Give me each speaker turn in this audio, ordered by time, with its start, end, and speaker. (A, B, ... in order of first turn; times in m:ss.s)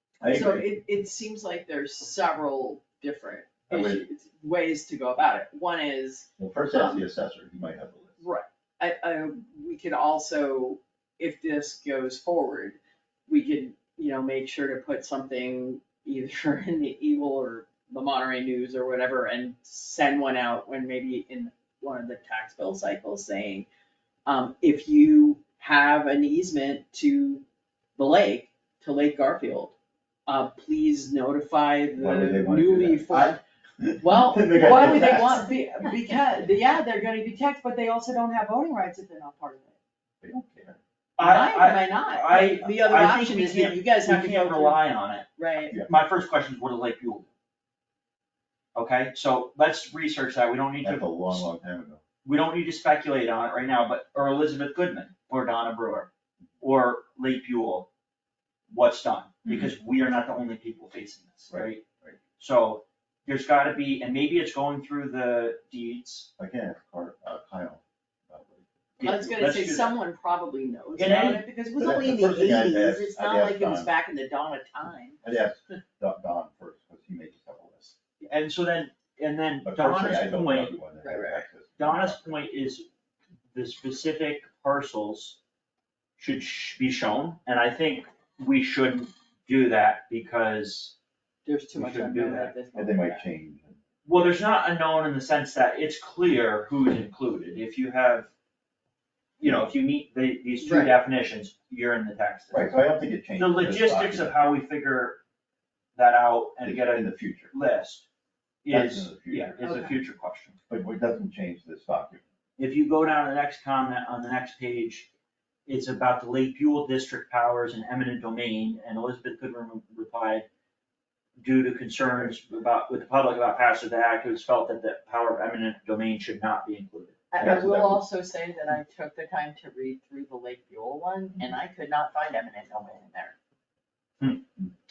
0:00.2-0:00.6 A
0:00.2-0:07.0 B
0:03.7-0:04.0 A
0:06.4-0:08.2 A
0:08.2-0:23.7 B
0:24.3-0:27.4 B
0:28.0-0:29.8 B
0:30.3-0:33.4 B
0:32.0-0:35.5 A
0:34.0-0:39.8 B
0:40.2-0:40.8 A
0:41.2-0:45.3 C
0:41.2-0:44.8 B
0:45.4-0:45.8 B
0:45.9-0:47.3 C
0:48.8-0:51.5 C
0:50.8-0:52.0 A
0:52.2-0:56.1 C
0:56.6-0:57.9 C
0:58.7-1:01.8 C
1:01.5-1:02.2 A
1:02.4-1:06.3 C
1:06.4-1:09.1 A
1:09.0-1:10.0 C
1:09.0-1:15.2 B
1:11.0-1:12.6 C
1:11.8-1:13.9 A
1:15.2-1:18.0 A
1:18.2-1:20.7 C
1:19.6-1:22.2 A
1:21.0-1:21.5 B
1:21.8-1:22.8 C
1:23.5-1:25.4 C
1:26.2-1:31.0 C
1:31.5-1:33.3 B
1:31.7-1:32.5 C
1:32.8-1:33.8 A
1:34.0-1:38.3 C
1:39.4-1:42.7 C
1:39.4-1:39.7 A
1:40.6-1:41.0 B
1:42.5-1:44.4 A
1:43.4-1:45.2 C
1:46.0-1:48.1 C
1:46.6-1:47.5 A
1:48.6-1:50.6 C
1:48.7-1:49.6 A
1:49.6-1:50.0 B
1:50.7-1:52.2 A
1:52.6-1:55.1 C
1:55.7-2:00.5 C
2:01.4-2:07.6 C
2:07.3-2:13.4 B
2:07.4-2:08.0 A